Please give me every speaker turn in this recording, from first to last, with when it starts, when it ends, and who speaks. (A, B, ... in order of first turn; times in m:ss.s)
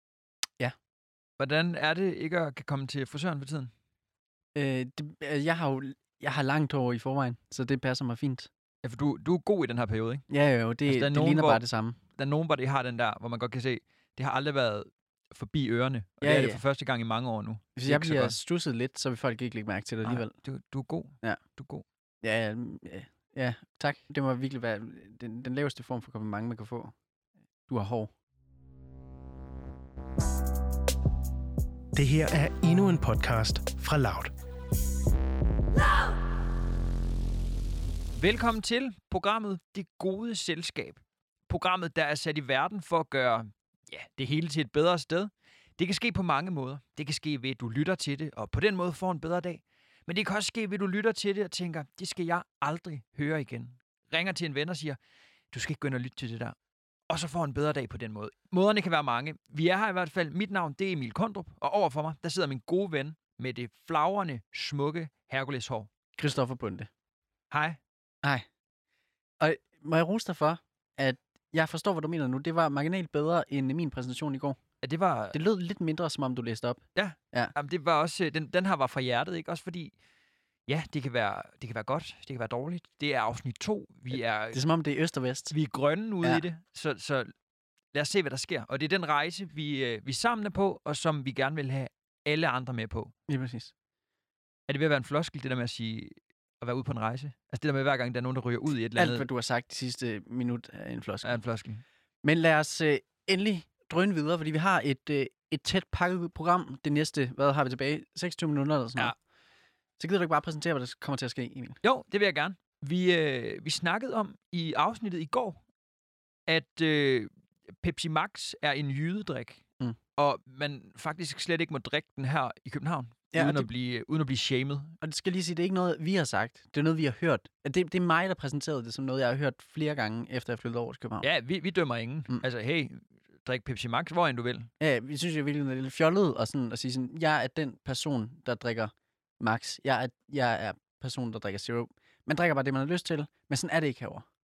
0:01.4-0:03.7 A
0:04.5-0:08.5 B
0:08.8-0:10.2 A
0:10.3-0:12.0 B
0:10.8-0:11.6 A
0:12.1-0:18.4 A
0:16.2-0:16.6 B
0:17.8-0:20.3 B
0:20.0-0:21.8 A
0:22.2-0:26.9 B
0:27.7-0:28.1 B
0:31.9-0:34.3 C
0:38.2-0:55.0 A
0:55.5-0:56.6 A
0:57.1-1:05.9 A
1:06.2-1:06.9 B
1:07.5-1:07.8 A
1:09.4-1:14.6 B
1:14.8-1:15.4 A
1:15.3-1:17.5 B
1:16.9-1:19.9 A
1:20.7-1:24.6 A
1:24.5-1:25.5 B
1:25.5-1:27.3 A
1:27.9-1:33.1 A
1:33.3-1:33.7 B
1:34.7-1:39.2 A
1:39.0-1:41.4 B
1:41.2-1:41.8 A
1:42.2-1:49.1 B
1:50.0-1:51.8 B
1:51.8-1:55.6 A
1:56.5-1:57.3 A
1:57.8-1:59.6 A
2:00.2-2:04.9 A
2:03.3-2:03.7 B
2:05.0-2:11.2 B
2:11.2-2:14.7 A
2:14.8-2:24.2 B